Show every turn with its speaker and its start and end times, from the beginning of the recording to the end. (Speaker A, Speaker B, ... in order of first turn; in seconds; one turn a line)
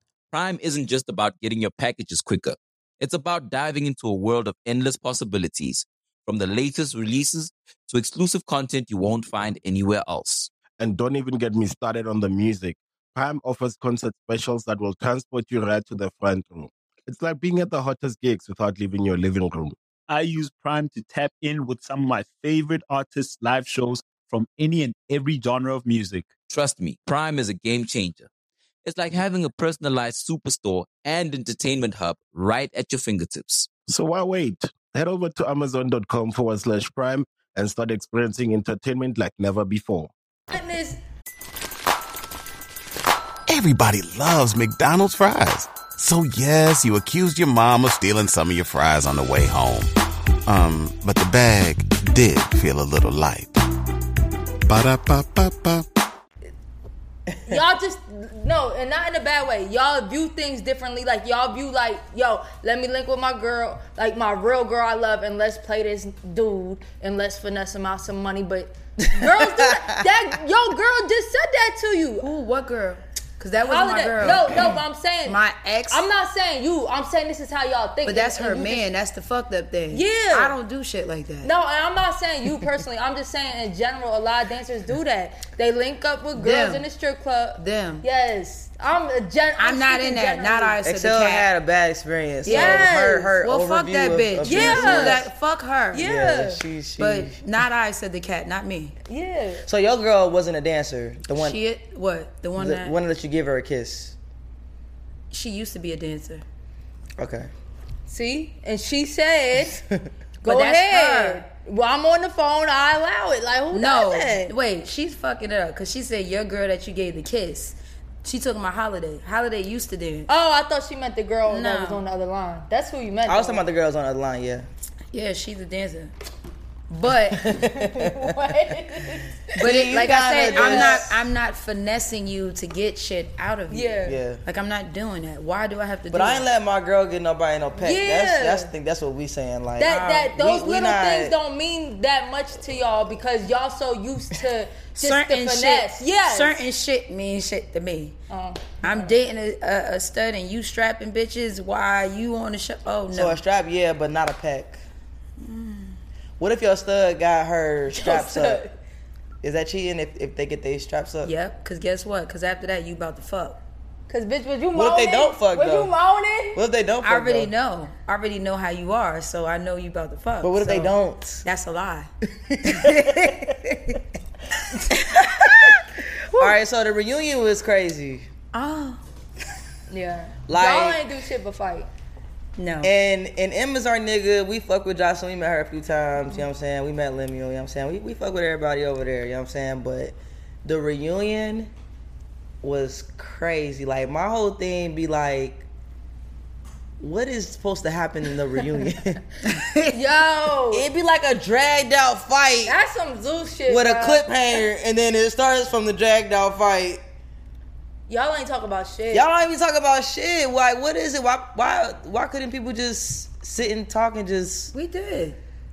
Speaker A: 0.3-10.5
Speaker B: 10.8-19.8
Speaker C: 20.1-26.3
Speaker A: 26.5-28.3
Speaker A: 28.8-33.7
Speaker B: 33.9-40.1
Speaker D: 40.5-41.0
Speaker E: 43.5-49.9
Speaker E: 50.5-53.6
Speaker E: 54.6-55.9
Speaker D: 57.5-72.3
Speaker F: 69.0-69.8
Speaker G: 72.2-74.7
Speaker D: 73.6-75.4
Speaker G: 75.2-76.0
Speaker D: 75.9-78.9
Speaker G: 78.0-81.5
Speaker D: 79.9-80.5
Speaker D: 81.4-90.8
Speaker G: 86.3-86.8
Speaker G: 87.6-88.0
Speaker G: 89.6-91.5
Speaker F: 90.8-95.2
Speaker G: 92.4-96.1
Speaker D: 92.5-93.3
Speaker D: 94.4-95.2
Speaker D: 95.9-96.6
Speaker F: 96.0-97.4
Speaker G: 97.0-99.0
Speaker D: 99.1-99.7
Speaker F: 99.7-101.6
Speaker G: 101.3-103.0
Speaker F: 102.6-104.2
Speaker G: 105.3-106.4
Speaker F: 107.2-107.5
Speaker D: 108.1-109.8
Speaker G: 110.4-111.4
Speaker D: 110.4-114.5
Speaker G: 113.7-120.3
Speaker D: 120.3-123.6
Speaker G: 121.5-122.0
Speaker F: 123.3-124.7
Speaker G: 125.1-126.1
Speaker G: 126.9-127.6
Speaker F: 127.4-128.2
Speaker D: 127.7-129.5
Speaker F: 129.6-131.2
Speaker G: 129.6-136.5
Speaker D: 130.4-131.0
Speaker D: 133.7-134.2
Speaker F: 134.1-134.4
Speaker F: 136.1-141.3
Speaker D: 137.8-138.7
Speaker D: 139.8-146.6
Speaker G: 139.9-140.2
Speaker G: 144.9-148.2
Speaker D: 148.3-149.1
Speaker G: 148.8-153.4
Speaker F: 153.1-154.8
Speaker G: 155.4-156.0
Speaker F: 156.4-158.6
Speaker D: 157.9-158.7
Speaker F: 159.4-161.3
Speaker G: 161.2-163.6
Speaker D: 164.1-166.6
Speaker F: 164.7-165.9
Speaker F: 166.5-167.5
Speaker G: 167.0-172.1
Speaker F: 170.4-171.4
Speaker F: 172.5-173.3
Speaker G: 172.6-174.0
Speaker F: 174.9-178.3
Speaker G: 178.5-179.0
Speaker D: 179.9-181.9
Speaker F: 180.5-181.0
Speaker G: 182.6-182.9
Speaker F: 182.8-191.7
Speaker F: 192.6-195.6
Speaker F: 197.0-199.2
Speaker G: 199.4-200.0
Speaker D: 199.9-200.8
Speaker F: 200.7-202.8
Speaker D: 202.6-204.3
Speaker F: 203.7-207.0
Speaker D: 208.1-209.3
Speaker F: 209.1-214.7
Speaker G: 214.7-215.4